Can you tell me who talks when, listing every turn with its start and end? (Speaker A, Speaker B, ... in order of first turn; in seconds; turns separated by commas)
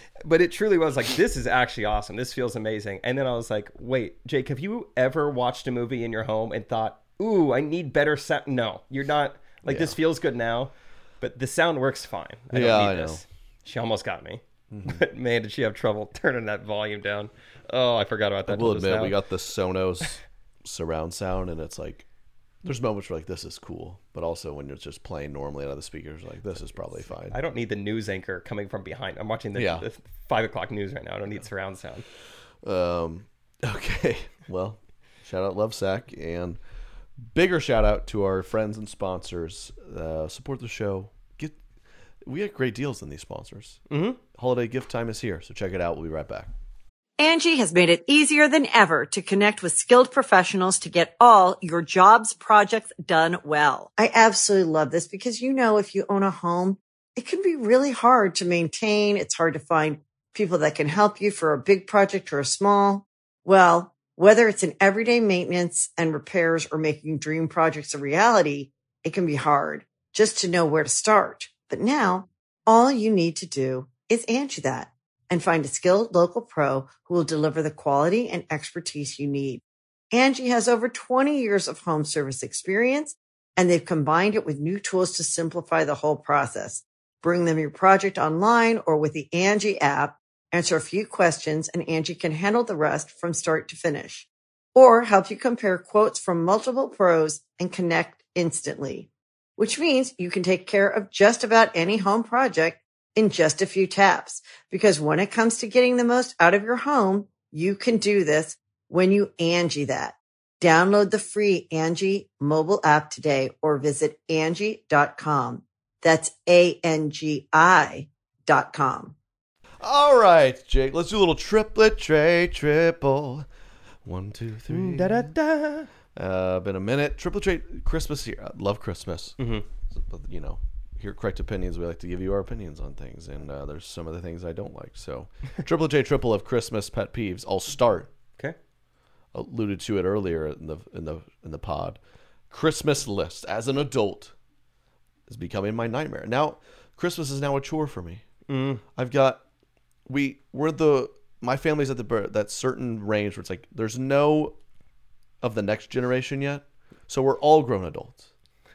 Speaker A: 0.2-19.2, Speaker B: 9.7-10.0, Speaker B: 12.5-13.2, Speaker B: 14.7-15.0, Speaker B: 18.5-22.1, Speaker B: 22.6-27.4, Speaker A: 27.3-32.0, Speaker B: 29.6-29.9, Speaker B: 32.6-36.6, Speaker B: 37.3-41.6, Speaker B: 42.2-43.8, Speaker A: 43.9-44.2, Speaker B: 44.3-46.5, Speaker C: 47.2-119.1, Speaker B: 119.8-123.5, Speaker B: 124.0-125.3, Speaker A: 124.7-125.9, Speaker B: 126.2-129.4, Speaker A: 129.4-129.7, Speaker B: 129.9-138.1, Speaker B: 139.3-142.0, Speaker B: 142.5-144.3, Speaker B: 145.3-148.2, Speaker A: 148.5-148.8, Speaker B: 149.0-149.4, Speaker B: 150.1-154.6, Speaker B: 155.4-158.3